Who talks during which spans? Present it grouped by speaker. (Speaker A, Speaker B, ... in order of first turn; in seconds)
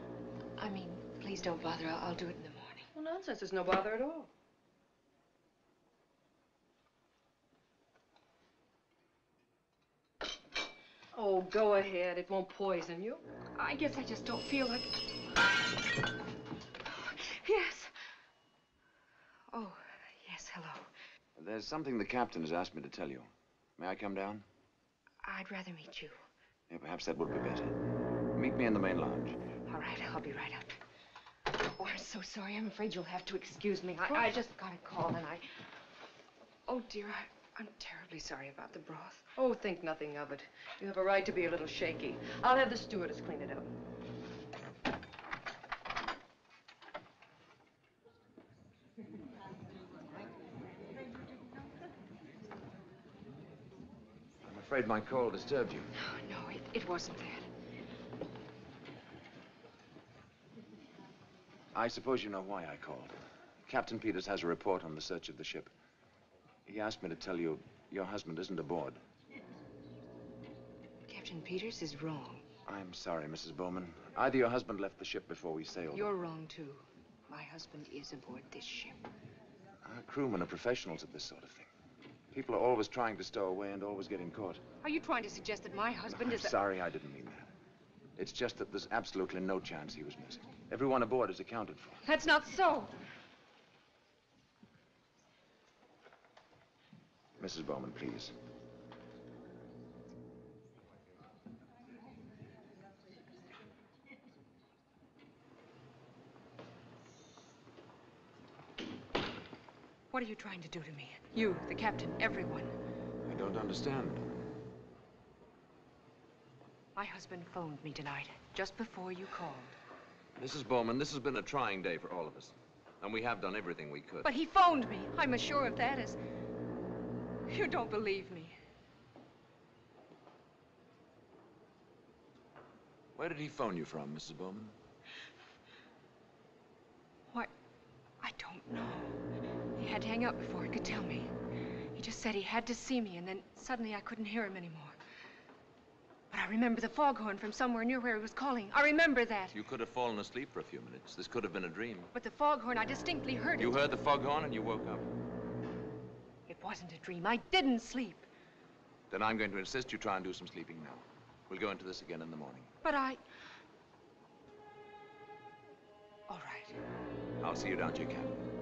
Speaker A: 0.6-2.9, 13.6-15.1, 16.9-18.0, 19.5-20.9, 25.2-26.2, 29.7-30.8, 31.5-35.6, 36.7-39.3, 56.0-57.5, 71.1-72.5, 75.9-79.0, 84.8-86.6, 92.0-92.9, 110.1-112.7, 117.0-119.8, 124.2-126.2, 127.5-128.6, 138.2-139.2, 139.8-141.3, 141.9-145.0, 146.3-149.6, 152.1-153.8, 156.5-158.3, 162.8-163.2, 166.3-166.8
Speaker B: 2.9-4.3, 11.1-13.2, 39.4-43.7
Speaker C: 21.4-24.4, 26.7-27.8, 28.4-29.4, 54.4-55.9, 61.7-63.1, 63.7-65.7, 66.7-69.0, 72.7-76.1, 79.8-81.7, 82.3-84.6, 86.1-87.5, 88.2-92.0, 97.4-98.3, 113.3-114.2, 120.4-124.3, 133.2-134.8, 149.5-152.1, 153.6-155.1, 159.1-162.7, 167.4-168.4